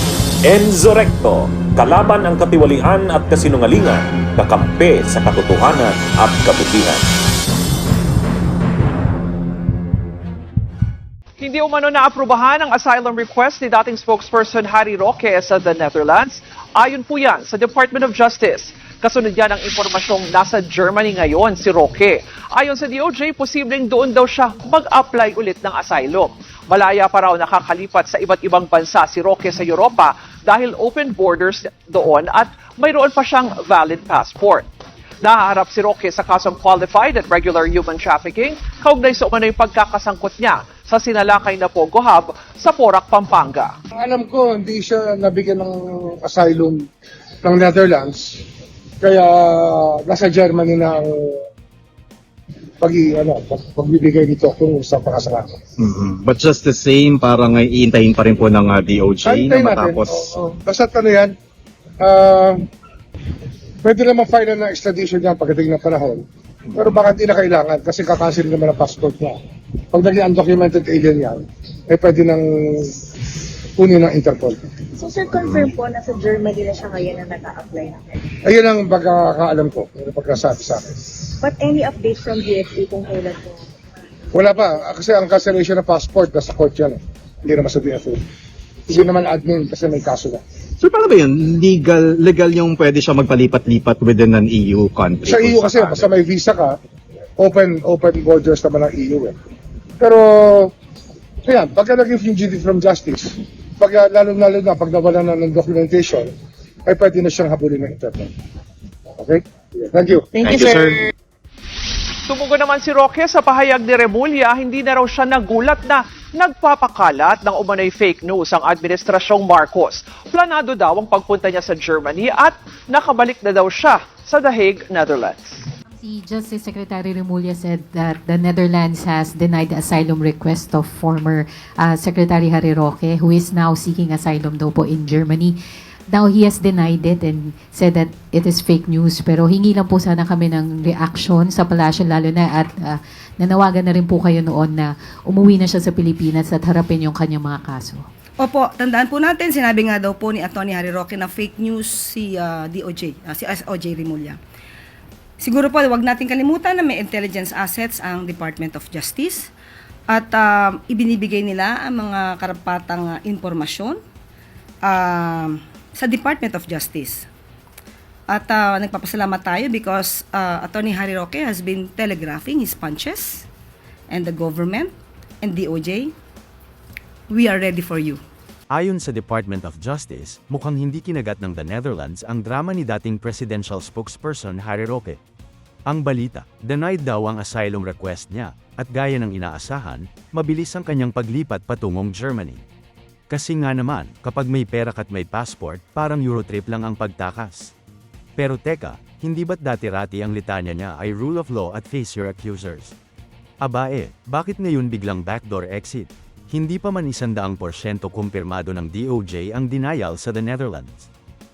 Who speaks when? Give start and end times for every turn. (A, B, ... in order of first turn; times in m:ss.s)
0:00.4-0:07.1 A
0:11.4-0:34.7 B
0:35.2-0:43.7 B
0:44.0-0:46.8 C
0:47.4-0:48.4 C
0:49.0-0:51.4 C
0:52.8-0:55.6 C
0:55.8-1:00.3 D
0:59.2-1:01.3 C
1:02.0-1:02.6 C
1:03.8-1:06.2 C
1:06.8-1:09.4 C
1:09.9-1:12.9 C
1:13.8-1:14.6 C
1:15.0-1:18.0 E
1:18.4-1:21.0 C
1:21.4-1:23.5 E
1:24.3-1:28.2 C
1:28.9-1:30.4 C
1:30.8-1:36.1 D
1:35.2-1:36.8 C
1:37.4-1:39.3 C
1:40.0-1:40.7 C
1:41.4-1:46.3 C
1:46.9-1:48.3 C
1:49.2-1:50.3 C
1:50.4-1:51.1 D
1:50.4-1:50.8 E
1:52.3-2:05.6 B
2:05.9-2:15.6 F
2:16.1-2:28.0 F
2:28.4-2:34.4 G
2:35.4-2:39.5 G
2:40.1-2:44.0 G
2:44.8-2:47.3 G
2:48.3-2:53.5 G
2:54.1-2:56.1 G
2:57.3-2:58.2 G
2:58.7-3:05.2 H
3:05.9-3:12.6 H
3:13.3-3:17.7 H
3:18.4-3:23.0 H
3:23.6-3:31.1 H